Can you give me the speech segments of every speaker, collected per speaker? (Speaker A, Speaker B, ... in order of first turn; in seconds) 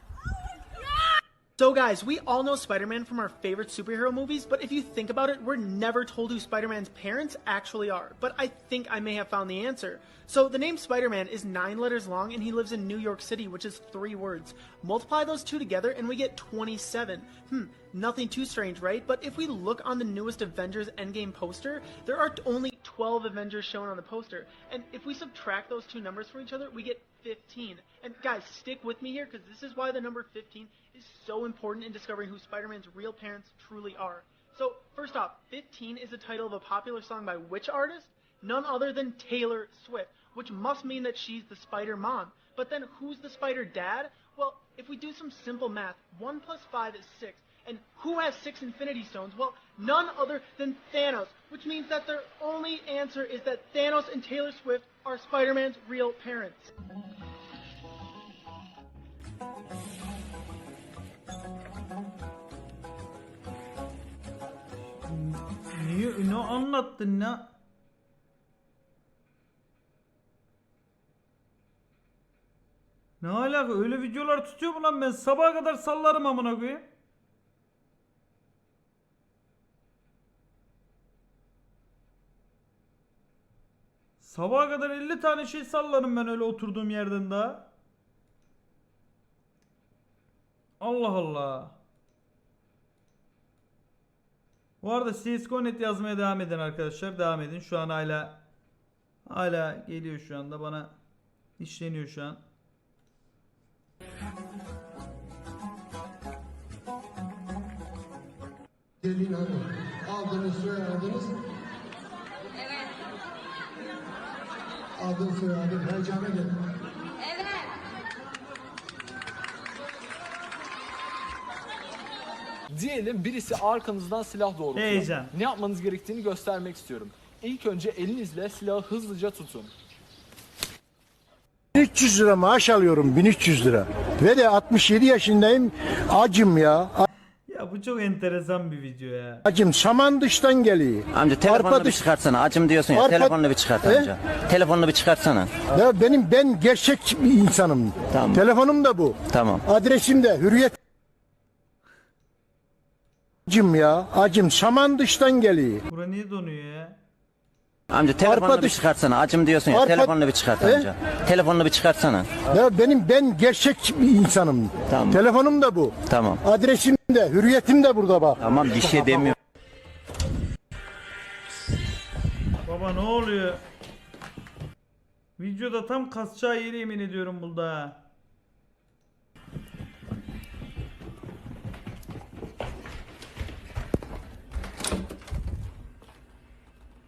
Speaker A: 1.6-56.7
Speaker B: 65.1-67.5, 73.2-76.9, 84.2-87.7, 90.8-91.8, 94.8-98.4, 99.2-100.9, 101.6-102.4, 124.7-125.3, 137.5-139.4, 155.9-157.0, 172.6-173.6, 175.4-178.0
Speaker C: 122.7-129.7
Speaker D: 131.7-137.1, 139.4-142.0, 142.9-144.1, 145.7-150.7, 153.5-155.8, 158.2-158.8, 159.7-160.9, 162.5-168.4
Speaker E: 141.1-145.5, 148.1-148.4, 149.3-149.6, 157.9-162.3, 164.9-165.2, 166.1-166.4, 168.4-169.3